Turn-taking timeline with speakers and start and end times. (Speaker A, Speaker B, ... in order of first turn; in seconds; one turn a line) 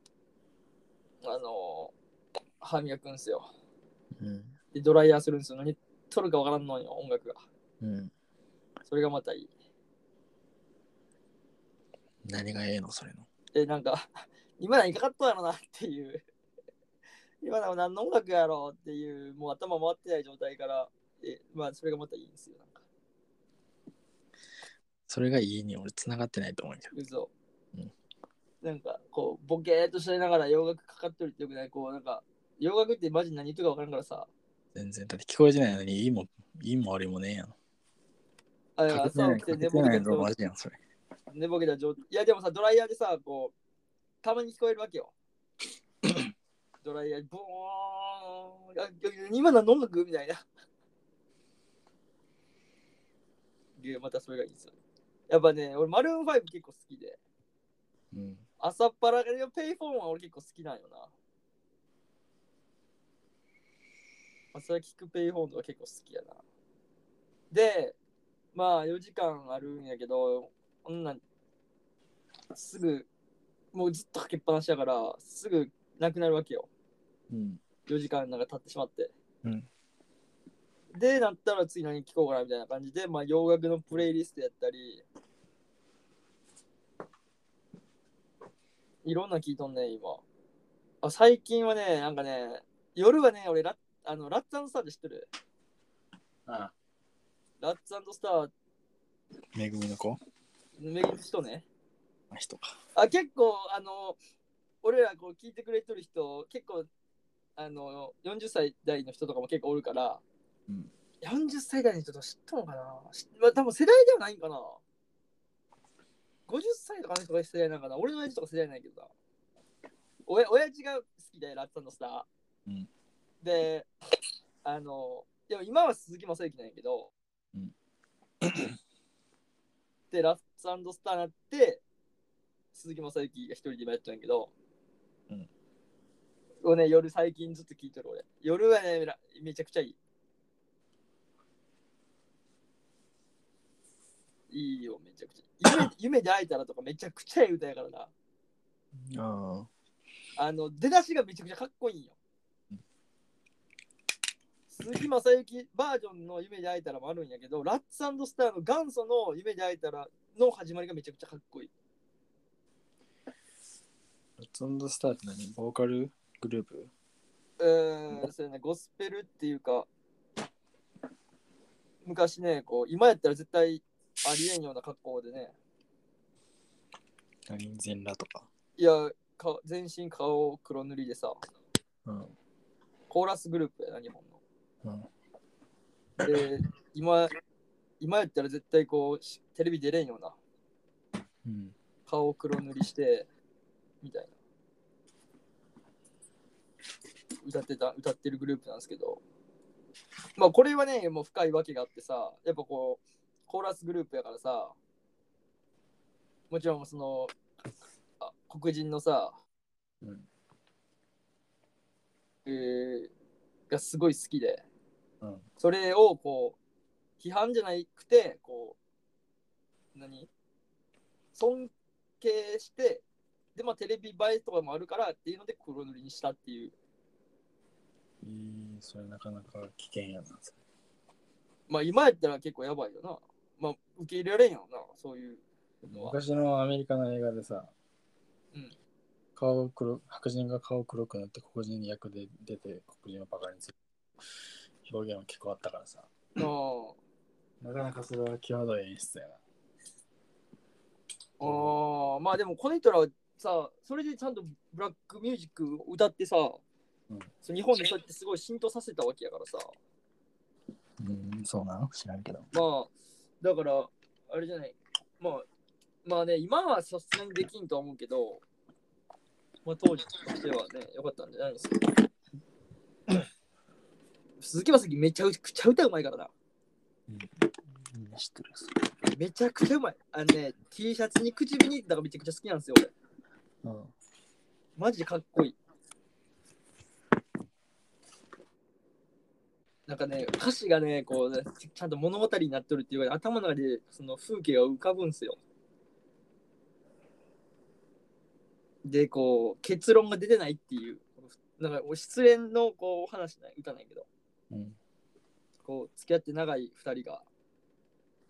Speaker A: 1.2-1.9
Speaker A: 2.6-3.5
Speaker B: 4.2-4.5
Speaker A: 4.7-7.4
Speaker B: 7.8-8.1
Speaker A: 8.9-9.5
Speaker B: 12.2-13.3
Speaker A: 13.5-16.2
Speaker A: 17.4-22.8
Speaker B: 25.1-26.9
Speaker A: 26.9-27.3
Speaker A: 28.6-34.3
Speaker B: 34.8-37.5
Speaker A: 38.8-40.3
Speaker B: 38.9-40.8
Speaker A: 41.3-43.5
Speaker A: 44.2-45.1
Speaker A: 46.8-50.4
Speaker A: 53.8-54.7
Speaker A: 55.3-57.2
Speaker B: 58.1-58.4
Speaker A: 58.6-61.1
Speaker A: 64.5-66.4
Speaker A: 67.5-68.0
Speaker A: 68.5-71.2
Speaker A: 72.5-73.1
Speaker A: 73.7-76.7
Speaker B: 77.3-77.6
Speaker A: 77.9-79.1
Speaker B: 79.4-79.7
Speaker A: 80.9-85.0
Speaker A: 89.0-90.2
Speaker A: 91.0-95.3
Speaker B: 96.5-96.7
Speaker A: 97.6-98.5
Speaker B: 99.5-100.2
Speaker A: 100.8-101.7
Speaker B: 102.3-102.7
Speaker A: 103.0-104.2
Speaker A: 104.8-106.9
Speaker A: 107.6-110.2
Speaker A: 111.2-114.8
Speaker A: 116.5-119.1
Speaker A: 120.3-122.3
Speaker A: 123.4-123.9
Speaker A: 124.6-127.1
Speaker B: 128.4-128.8
Speaker A: 130.1-131.8
Speaker A: 132.7-134.5
Speaker A: 136.6-140.0
Speaker A: 144.5-148.1
Speaker B: 148.9-149.7
Speaker A: 150.4-152.2
Speaker A: 154.7-161.7
Speaker B: 164.4-166.9
Speaker A: 167.6-169.9
Speaker A: 172.0-175.5
Speaker B: 177.5-178.5
Speaker A: 178.8-181.4
Speaker B: 182.1-182.3
Speaker A: 183.1-184.4
Speaker B: 184.8-185.1
Speaker A: 186.2-187.4
Speaker A: 188.0-190.4
Speaker B: 191.4-191.8
Speaker A: 192.1-193.3
Speaker A: 194.0-194.3
Speaker A: 197.4-199.2
Speaker A: 200.4-204.8
Speaker A: 206.5-207.3
Speaker A: 208.2-209.4
Speaker A: 212.4-213.1
Speaker A: 213.7-214.6
Speaker A: 215.6-216.6
Speaker A: 217.2-218.8
Speaker A: 219.9-220.3
Speaker A: 221.3-223.0
Speaker A: 223.6-226.7
Speaker B: 228.2-230.6
Speaker A: 231.7-236.2
Speaker B: 235.9-237.7
Speaker B: 239.4-243.7
Speaker B: 244.8-246.1
Speaker A: 246.4-247.0
Speaker B: 247.6-249.4
Speaker A: 251.4-256.6
Speaker B: 251.4-251.8
Speaker A: 257.4-259.7
Speaker B: 261.0-262.5
Speaker A: 262.5-265.4
Speaker A: 266.1-268.4
Speaker A: 269.6-271.9
Speaker A: 274.4-276.3
Speaker B: 277.1-278.8
Speaker A: 279.1-282.9
Speaker B: 283.6-283.9
Speaker A: 284.8-285.6
Speaker A: 289.9-295.4
Speaker A: 298.8-304.1
Speaker B: 304.5-304.8
Speaker A: 305.6-307.2